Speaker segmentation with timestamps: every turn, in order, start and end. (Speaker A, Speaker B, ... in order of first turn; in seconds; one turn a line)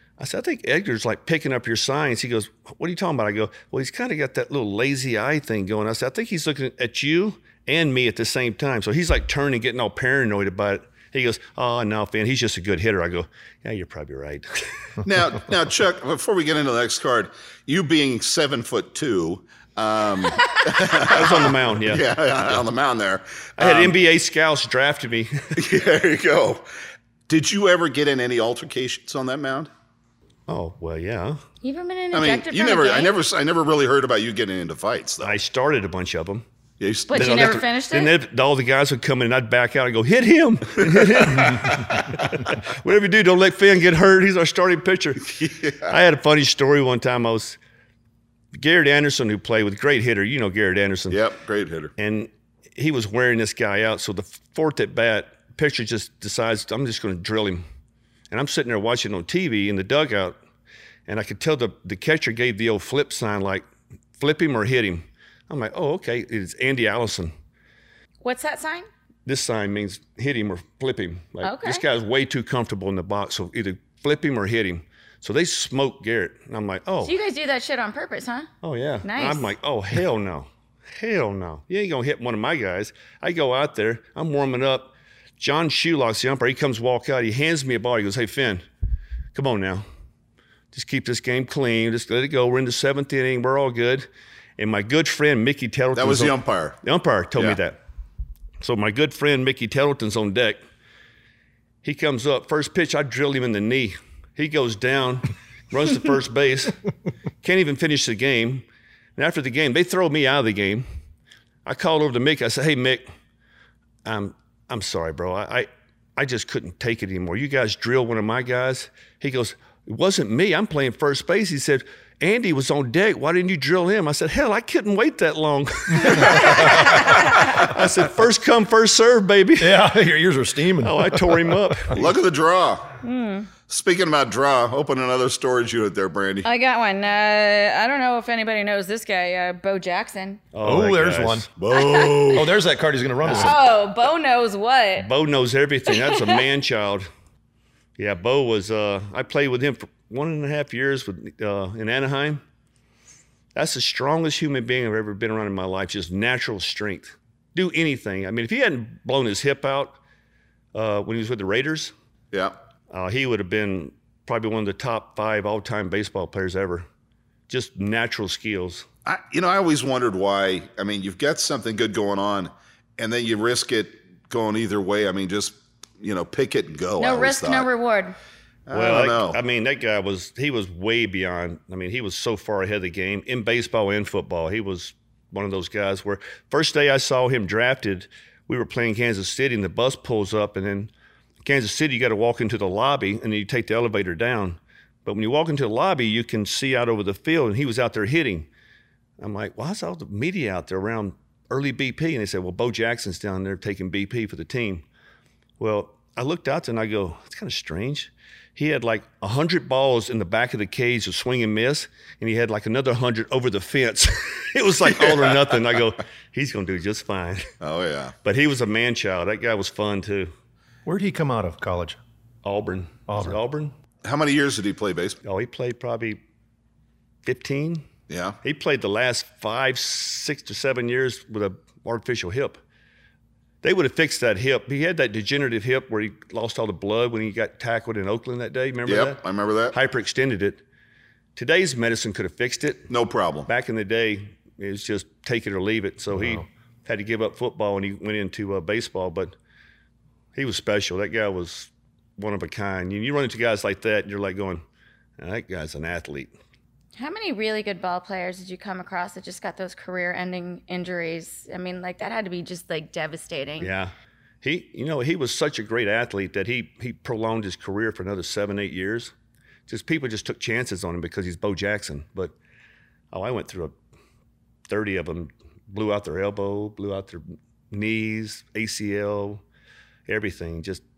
Speaker A: 0.2-14.6
Speaker B: 15.0-24.0
Speaker A: 21.0-22.1
Speaker A: 23.6-25.5
Speaker B: 25.6-26.6
Speaker B: 27.3-29.7
Speaker A: 30.5-31.4
Speaker C: 31.6-33.2
Speaker B: 32.1-35.4
Speaker A: 35.2-36.4
Speaker B: 36.8-37.7
Speaker C: 37.1-38.1
Speaker A: 37.1-45.3
Speaker B: 40.8-42.1
Speaker B: 45.3-46.0
Speaker A: 45.9-47.6
Speaker A: 48.5-51.2
Speaker B: 51.1-51.9
Speaker A: 52.0-57.6
Speaker A: 58.3-60.4
Speaker A: 61.1-63.6
Speaker A: 64.2-67.3
Speaker C: 68.2-68.9
Speaker A: 69.3-77.1
Speaker C: 71.4-71.8
Speaker C: 77.0-78.5
Speaker A: 78.6-88.7
Speaker C: 79.0-79.5
Speaker A: 89.3-89.8
Speaker A: 90.7-94.1
Speaker A: 94.6-97.8
Speaker B: 95.9-96.8
Speaker A: 98.6-100.6
Speaker A: 101.8-106.8
Speaker A: 107.4-110.9
Speaker A: 111.7-113.1
Speaker A: 114.0-129.8
Speaker C: 126.1-127.6
Speaker B: 126.1-126.4
Speaker D: 126.3-127.0
Speaker D: 129.6-132.0
Speaker A: 130.8-132.1
Speaker B: 131.9-132.9
Speaker C: 133.0-133.5
Speaker B: 133.6-136.5
Speaker C: 136.4-140.4
Speaker A: 140.5-141.5
Speaker D: 140.6-141.5
Speaker B: 141.6-142.5
Speaker C: 141.7-142.5
Speaker D: 142.3-143.7
Speaker A: 143.2-143.6
Speaker C: 143.3-145.1
Speaker A: 145.0-147.1
Speaker C: 145.9-146.4
Speaker A: 148.0-152.4
Speaker A: 153.6-160.0
Speaker A: 160.7-161.9
Speaker A: 162.9-166.9
Speaker A: 167.5-168.9
Speaker B: 169.1-177.7
Speaker C: 177.0-178.2
Speaker B: 178.7-179.4
Speaker A: 178.7-190.9
Speaker A: 191.4-198.5
Speaker A: 199.2-204.8
Speaker A: 205.6-217.5
Speaker B: 215.0-215.2
Speaker B: 217.6-218.2
Speaker A: 218.2-220.3
Speaker D: 220.8-222.0
Speaker A: 222.4-223.7
Speaker D: 223.1-223.4
Speaker B: 224.0-225.2
Speaker A: 225.2-226.2
Speaker A: 227.2-227.8
Speaker B: 228.1-228.4
Speaker A: 228.4-232.6
Speaker A: 233.6-239.2
Speaker B: 238.9-239.8
Speaker A: 239.7-240.6
Speaker A: 241.4-242.9
Speaker B: 242.9-243.5
Speaker A: 243.5-249.3
Speaker D: 246.1-246.4
Speaker A: 250.3-254.6
Speaker A: 255.2-256.3
Speaker C: 257.0-263.7
Speaker A: 263.6-269.1
Speaker A: 269.7-272.4
Speaker A: 273.1-273.8
Speaker A: 274.7-279.4
Speaker A: 280.1-280.8